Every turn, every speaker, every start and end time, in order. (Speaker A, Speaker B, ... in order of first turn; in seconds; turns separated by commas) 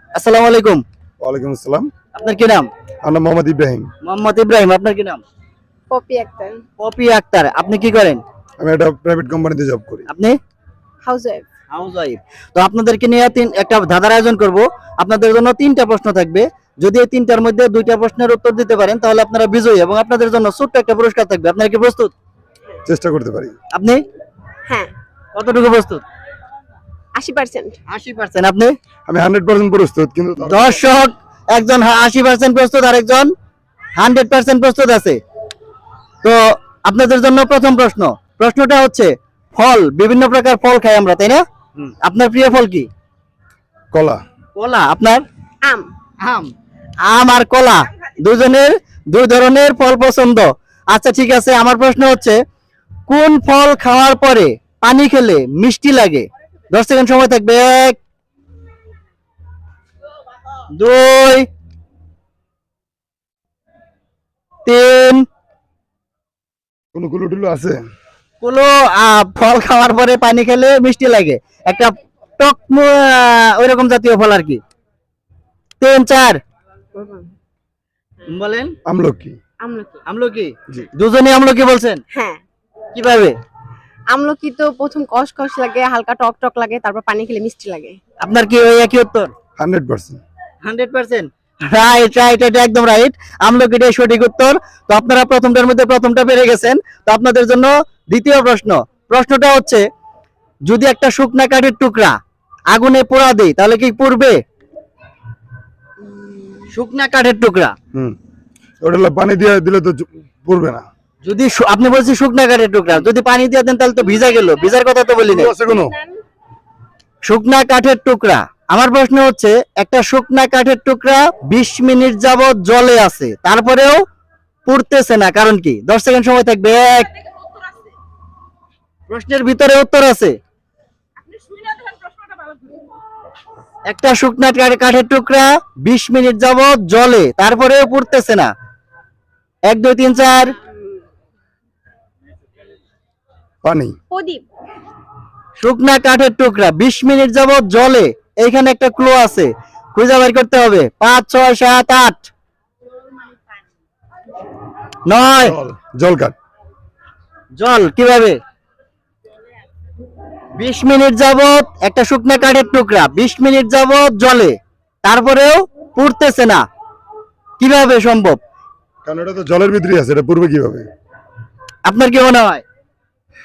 Speaker A: 0.1-0.8, Speaker B: 1.2-1.9, Speaker A: 2.1-2.7, Speaker B: 3.0-3.9, Speaker A: 4.0-5.2, Speaker C: 5.9-6.6, Speaker A: 6.8-8.2, Speaker B: 8.6-10.1, Speaker A: 10.1-10.4, Speaker C: 11.1-11.4, Speaker A: 11.7-22.1, Speaker B: 22.9-23.6, Speaker A: 23.7-24.0, Speaker A: 25.4-26.0, Speaker C: 27.1-27.8, Speaker A: 27.9-28.8, Speaker B: 29.1-30.8, Speaker A: 30.4-33.3, Speaker A: 34.0-35.2, Speaker A: 36.2-41.4, Speaker A: 42.0-42.9, Speaker B: 43.9-44.2, Speaker A: 44.6-45.2, Speaker C: 45.6-45.9, Speaker A: 46.2-46.5, Speaker A: 47.0-52.4, Speaker A: 53.1-58.0, Speaker A: 60.8-61.5, Speaker A: 64.7-65.2, Speaker B: 66.9-67.8, Speaker A: 68.4-74.6, Speaker A: 75.8-76.4, Speaker C: 77.0-77.3, Speaker A: 78.3-78.8, Speaker B: 78.8-79.4, Speaker C: 79.6-80.0, Speaker A: 80.1-82.0, Speaker C: 82.1-82.4, Speaker A: 82.9-83.4, Speaker C: 84.1-88.0, Speaker A: 88.2-89.3, Speaker B: 89.6-90.2, Speaker A: 90.6-99.8, Speaker A: 100.7-102.2, Speaker A: 102.7-104.4, Speaker C: 106.1-106.7, Speaker A: 106.7-107.8, Speaker B: 108.8-110.8, Speaker A: 111.2-115.5, Speaker B: 115.2-116.0, Speaker C: 115.6-116.2, Speaker A: 117.2-124.0, Speaker A: 124.7-127.1, Speaker A: 129.1-130.4, Speaker C: 131.4-132.5, Speaker A: 133.9-138.5, Speaker A: 139.7-140.6, Speaker B: 143.6-144.0, Speaker C: 144.1-144.4, Speaker A: 145.6-152.3, Speaker A: 155.1-155.6, Speaker B: 155.4-156.3, Speaker A: 157.6-158.4, Speaker A: 160.6-166.6, Speaker A: 167.6-168.4, Speaker B: 169.1-170.9, Speaker A: 171.9-172.6